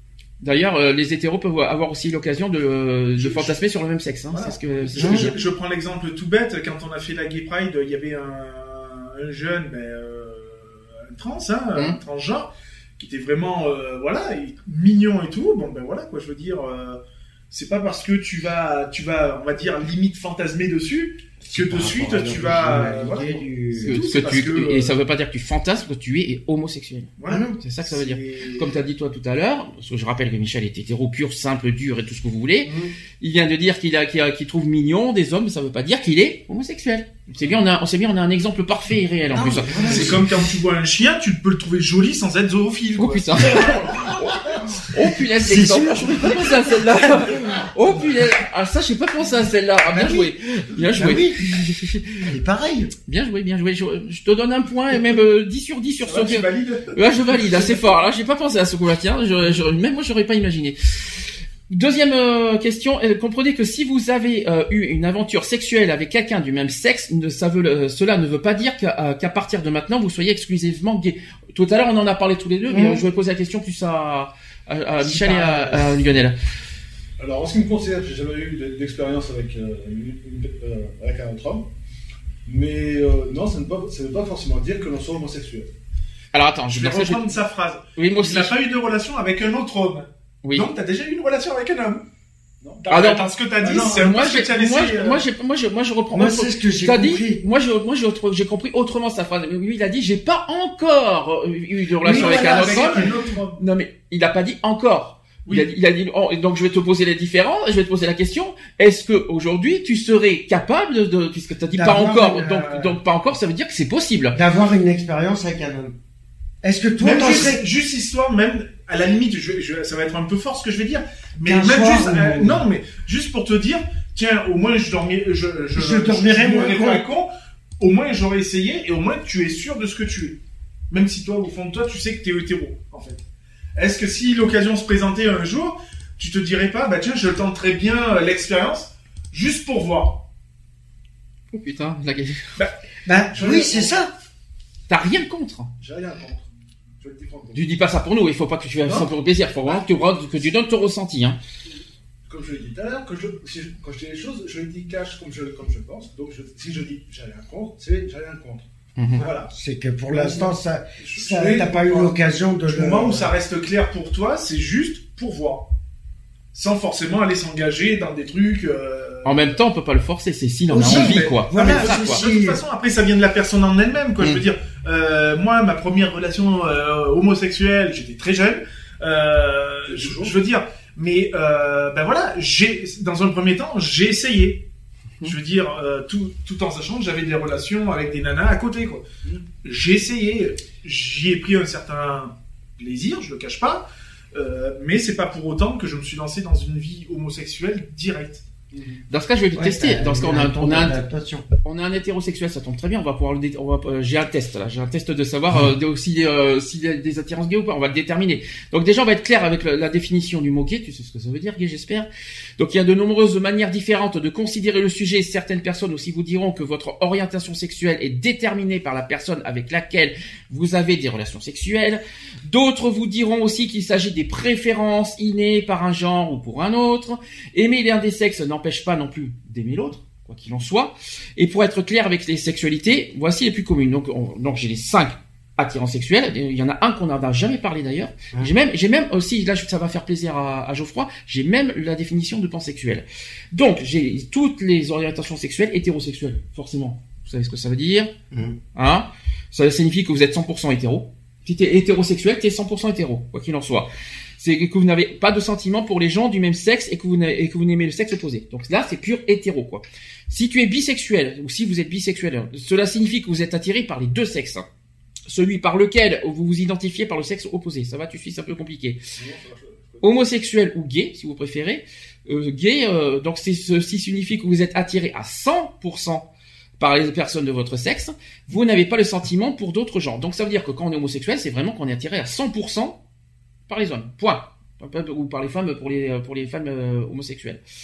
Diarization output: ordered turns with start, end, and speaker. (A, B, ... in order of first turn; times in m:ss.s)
0:00.4-0:05.4 A
0:03.2-0:03.5 B
0:04.3-0:25.0 B
0:05.0-0:05.4 C
0:21.5-0:24.0 C
0:23.8-0:40.2 A
0:27.2-0:28.8 B
0:27.3-0:27.6 C
0:37.3-0:37.6 B
0:39.3-0:40.2 C
0:39.8-0:44.2 B
0:43.0-0:44.1 A
0:44.8-0:52.2 A
0:45.4-0:47.3 C
0:49.9-0:51.4 C
0:52.2-0:52.9 C
0:53.1-1:01.2 A
0:56.1-0:56.9 D
0:56.2-0:56.7 B
1:01.7-1:16.4 A
1:12.7-1:13.0 C
1:15.1-1:15.8 C
1:17.2-1:21.7 D
1:22.5-1:25.7 D
1:26.3-1:27.4 A
1:26.7-1:32.1 B
1:28.0-1:28.6 A
1:30.4-1:30.7 A
1:32.6-1:32.9 D
1:32.8-1:35.3 B
1:32.9-1:54.4 A
1:33.6-1:34.0 D
1:36.1-1:37.4 C
1:42.0-1:43.2 C
1:42.0-1:43.5 B
1:43.2-1:43.6 D
1:45.5-1:45.7 B
1:51.7-1:53.0 C
1:54.3-1:55.9 C
1:56.6-1:57.6 C
1:57.0-2:13.2 B
2:01.4-2:02.6 C
2:05.8-2:07.1 C
2:13.8-2:20.2 B
2:21.5-2:22.5 A
2:23.0-2:24.1 C
2:23.3-2:23.9 D
2:24.9-2:25.7 A
2:25.8-2:27.7 D
2:27.5-2:31.4 A
2:28.8-2:29.1 D
2:32.3-2:38.6 D
2:39.0-2:39.3 A
2:39.2-2:39.5 D
2:39.2-2:43.3 C
2:40.1-2:42.2 D
2:42.7-2:45.7 B
2:46.5-2:49.4 B
2:49.2-2:52.2 A
2:50.7-2:52.6 C
2:50.8-3:04.6 B
2:59.9-3:00.4 D
3:05.2-3:09.1 B
3:09.6-3:18.4 B
3:18.7-3:19.0 D
3:19.1-3:21.0 A
3:19.6-3:21.5 C
3:21.6-4:08.1 A
4:08.3-4:08.6 C
4:08.8-4:24.7 A
4:25.3-4:29.0 A
4:29.2-4:30.1 D
4:30.0-4:36.3 A
4:36.8-4:43.0 A
4:43.7-4:47.6 A